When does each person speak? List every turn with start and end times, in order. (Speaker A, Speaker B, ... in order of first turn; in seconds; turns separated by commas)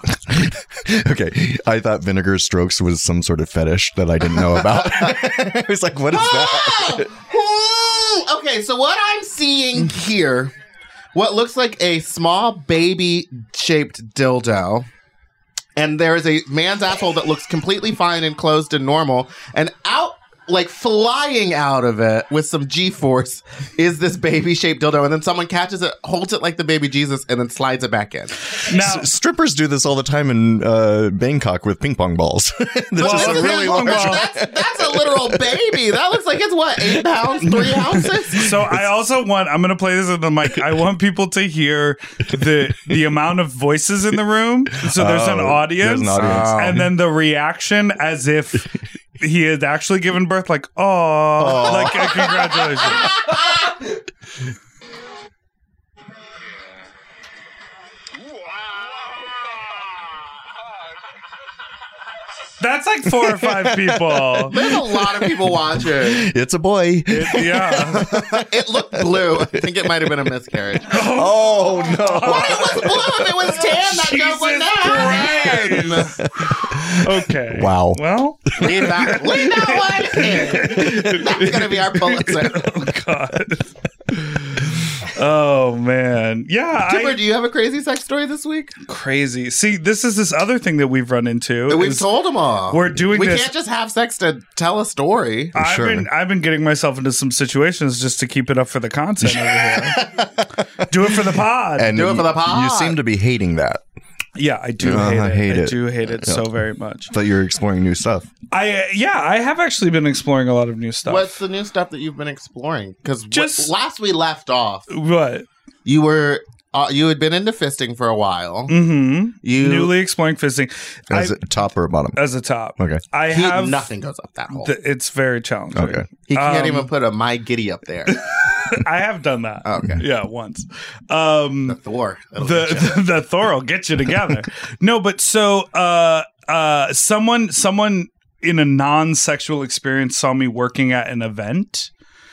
Speaker A: 0.3-7.1, Speaker B: 4.4-5.2, Speaker B: 6.1-10.5, Speaker B: 11.1-14.9, Speaker B: 15.8-28.4, Speaker C: 28.7-29.1, Speaker A: 28.7-35.8, Speaker B: 33.0-38.6, Speaker C: 33.0-34.3, Speaker C: 37.4-53.2, Speaker A: 44.8-46.9, Speaker B: 46.2-46.8, Speaker A: 51.4-52.5, Speaker C: 62.6-64.6, Speaker A: 63.2-70.1, Speaker B: 64.5-66.3, Speaker C: 67.1-68.1, Speaker B: 68.0-71.0, Speaker C: 70.9-87.2, Speaker A: 70.9-73.3, Speaker B: 72.1-76.0, Speaker A: 75.8-78.0, Speaker B: 78.6-82.7, Speaker B: 86.8-88.7, Speaker C: 88.9-92.0, Speaker B: 91.7-95.5, Speaker C: 92.7-93.5, Speaker A: 95.5-96.1, Speaker C: 95.5-100.2, Speaker B: 99.9-100.3, Speaker C: 100.9-102.0, Speaker A: 101.8-103.8, Speaker B: 101.9-103.0, Speaker C: 104.4-107.1, Speaker A: 104.8-106.5, Speaker A: 107.1-108.3, Speaker C: 108.5-111.3, Speaker B: 111.1-114.9, Speaker C: 113.3-113.7, Speaker C: 114.9-115.5, Speaker B: 115.9-118.7, Speaker C: 118.7-121.5, Speaker B: 119.4-119.9, Speaker A: 121.1-122.2, Speaker C: 122.2-123.9, Speaker A: 122.8-123.0, Speaker B: 123.3-124.7, Speaker C: 124.5-126.9, Speaker A: 125.7-126.0, Speaker B: 126.3-128.3, Speaker C: 128.1-131.8, Speaker B: 129.6-130.0, Speaker B: 131.7-133.0, Speaker C: 132.4-141.9